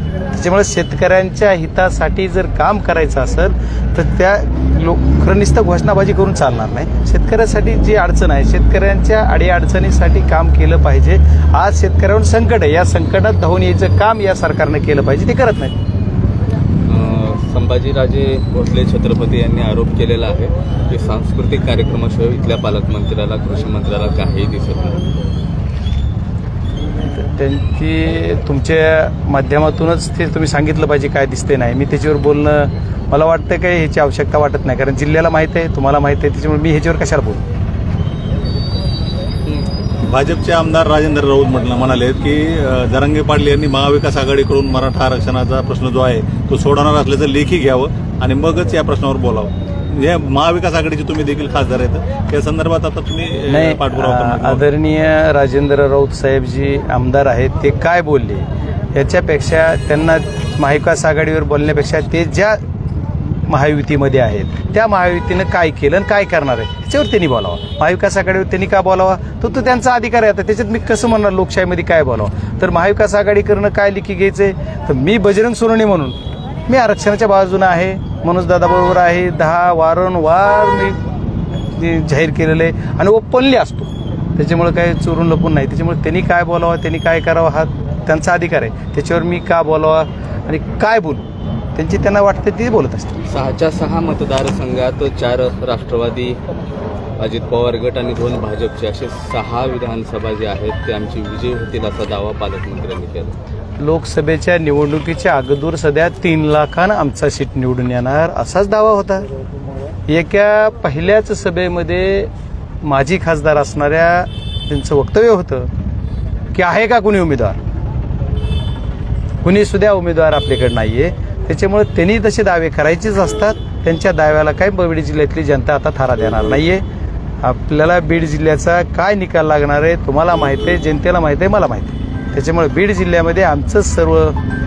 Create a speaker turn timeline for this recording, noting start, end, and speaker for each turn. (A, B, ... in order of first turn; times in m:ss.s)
0:00.3-0:15.8 A
0:16.9-0:25.1 B
0:27.0-0:37.4 A
0:40.1-0:54.6 C
0:53.5-1:02.6 A
1:03.5-1:21.0 A
1:21.7-1:31.2 A
1:31.8-1:33.2 A
1:33.2-1:36.4 B
1:37.2-1:43.4 B
1:43.8-1:49.3 A
1:50.1-1:52.3 A
1:52.8-1:55.7 A
1:56.5-1:57.6 A
1:59.4-2:06.8 A
2:07.4-2:14.4 A